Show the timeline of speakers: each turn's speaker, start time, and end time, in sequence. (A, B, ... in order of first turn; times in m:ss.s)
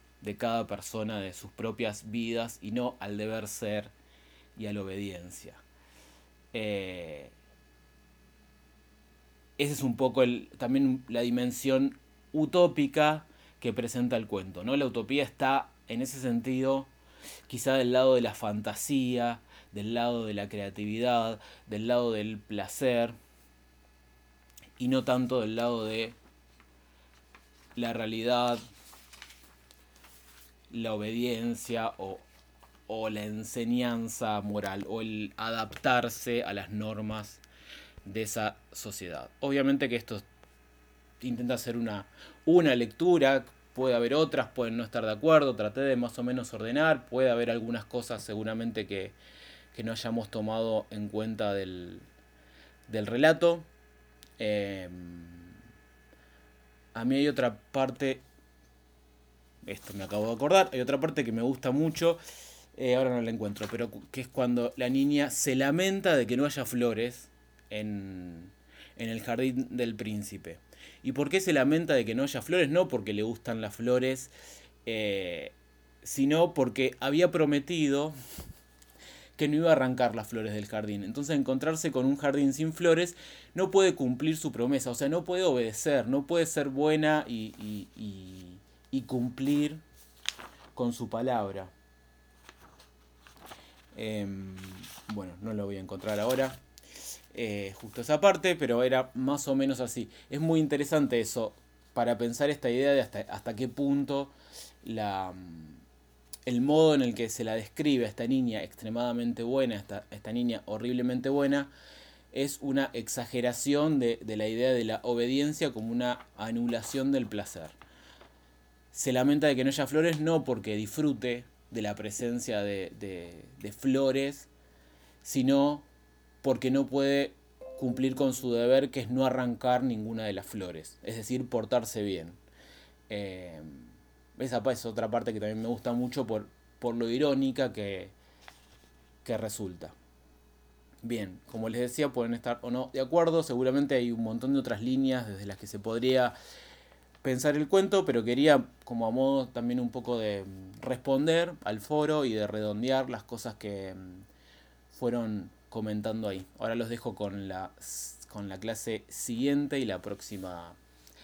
0:00.2-0:03.9 A
0:04.6-0:05.6 A
0:06.5-0:07.3 A
0:09.6-0:16.9 A
0:17.5-0:23.1 A
0:24.8-0:26.2 A
0:27.7-0:28.6 A
0:30.7-0:32.2 A
0:32.9-0:37.4 A
0:38.0-0:40.2 A
0:41.2-0:49.1 A
0:49.7-0:52.1 A
0:52.9-0:53.7 A
0:54.4-0:55.5 A
0:56.9-0:58.2 A
0:59.6-1:02.2 A
1:02.7-1:14.3 A
1:14.8-1:18.1 A
1:19.4-1:29.8 A
1:30.7-1:31.7 A
1:33.9-1:36.6 A
1:37.3-1:45.8 A
1:46.4-1:51.7 A
1:52.3-1:57.8 A
1:58.9-2:04.5 A
2:05.2-2:05.8 A
2:06.4-2:12.4 A
2:13.1-2:18.1 A
2:19.2-2:19.9 A
2:21.0-2:26.3 A
2:27.2-2:34.2 A
2:34.9-2:40.8 A